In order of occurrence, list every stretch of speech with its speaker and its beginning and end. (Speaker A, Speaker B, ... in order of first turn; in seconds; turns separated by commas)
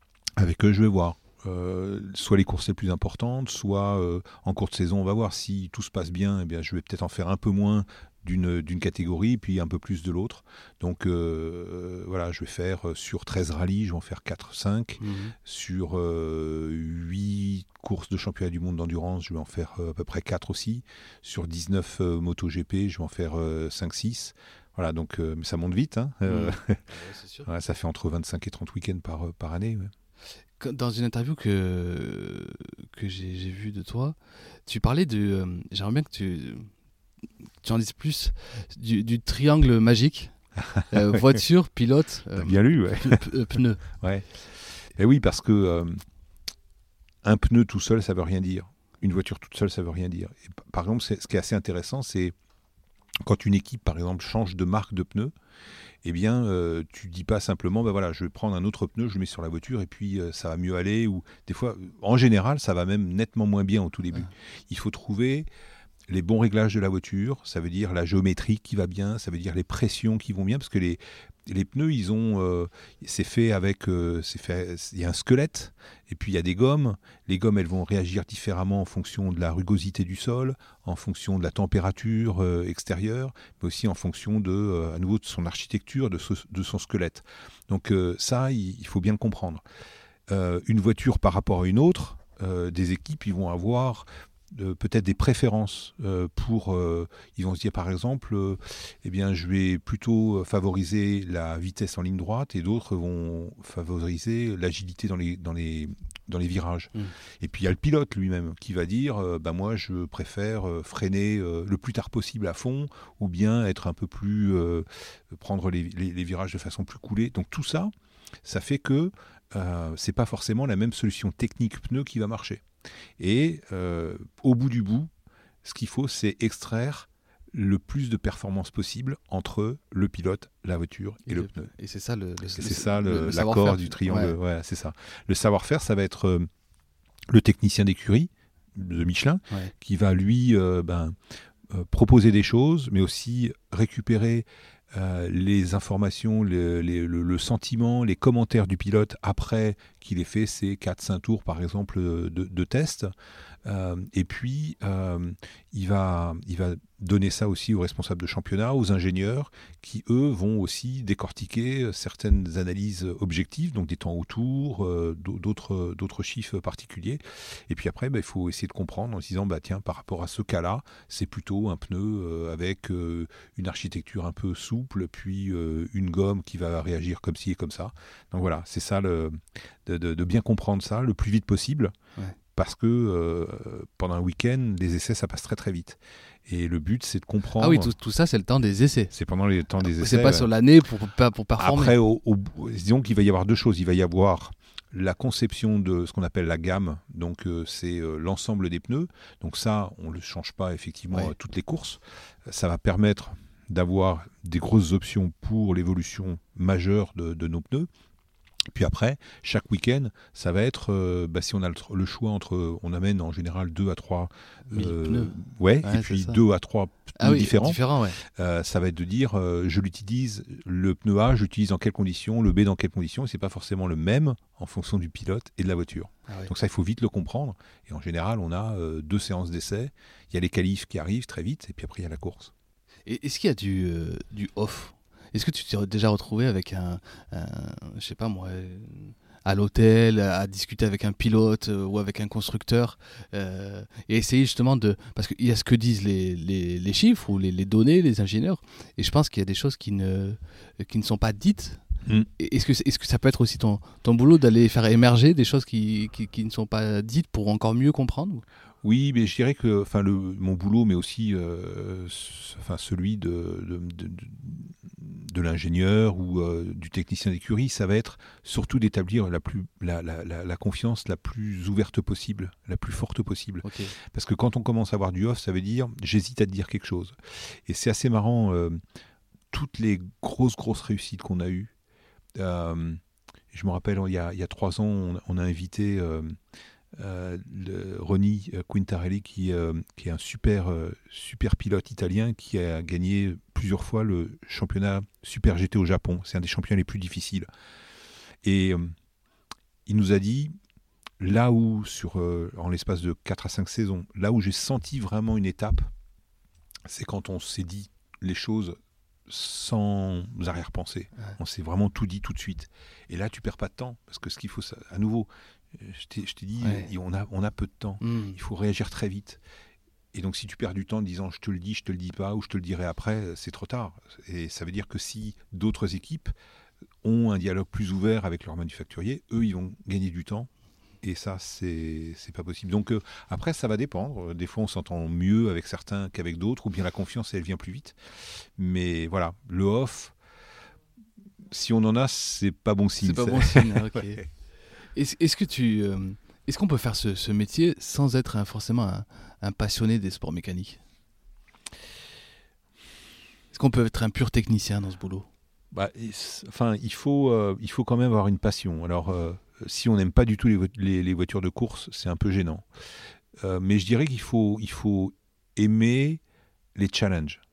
Speaker A: 0.4-26.8, Speaker B: 15.0-15.3, Speaker B: 26.2-27.5, Speaker A: 27.4-29.9, Speaker B: 30.6-36.7, Speaker B: 37.6-40.3, Speaker A: 40.6-41.2, Speaker B: 40.9-43.8, Speaker A: 42.4-46.0, Speaker A: 47.2-52.3, Speaker A: 53.2-55.3, Speaker A: 56.0-65.5, Speaker A: 66.1-89.6, Speaker A: 90.3-117.9, Speaker A: 118.4-122.6, Speaker A: 123.2-125.1, Speaker A: 125.6-131.7, Speaker B: 131.3-134.4, Speaker A: 132.5-136.5, Speaker A: 137.3-153.1, Speaker A: 153.6-181.9, Speaker A: 182.5-187.9, Speaker B: 187.6-189.1, Speaker A: 189.1-190.5, Speaker B: 189.8-191.9, Speaker A: 191.6-207.9, Speaker A: 208.7-232.5, Speaker B: 214.7-216.4, Speaker B: 217.2-218.2, Speaker B: 233.1-251.8, Speaker B: 252.4-258.4, Speaker A: 258.8-278.8, Speaker B: 273.6-273.9, Speaker A: 279.5-281.7, Speaker A: 282.4-283.0, Speaker A: 283.5-286.4, Speaker A: 287.0-297.5, Speaker A: 298.4-298.9, Speaker A: 299.9-300.6, Speaker A: 301.2-305.9, Speaker A: 306.9-319.4, Speaker B: 316.6-316.9, Speaker B: 318.0-318.4, Speaker A: 320.1-326.3, Speaker A: 327.0-330.5, Speaker A: 331.0-340.1, Speaker A: 341.5-344.2, Speaker B: 343.0-344.2, Speaker B: 344.9-350.8, Speaker B: 353.5-355.3, Speaker A: 355.7-362.7, Speaker A: 363.4-366.2, Speaker A: 366.8-367.4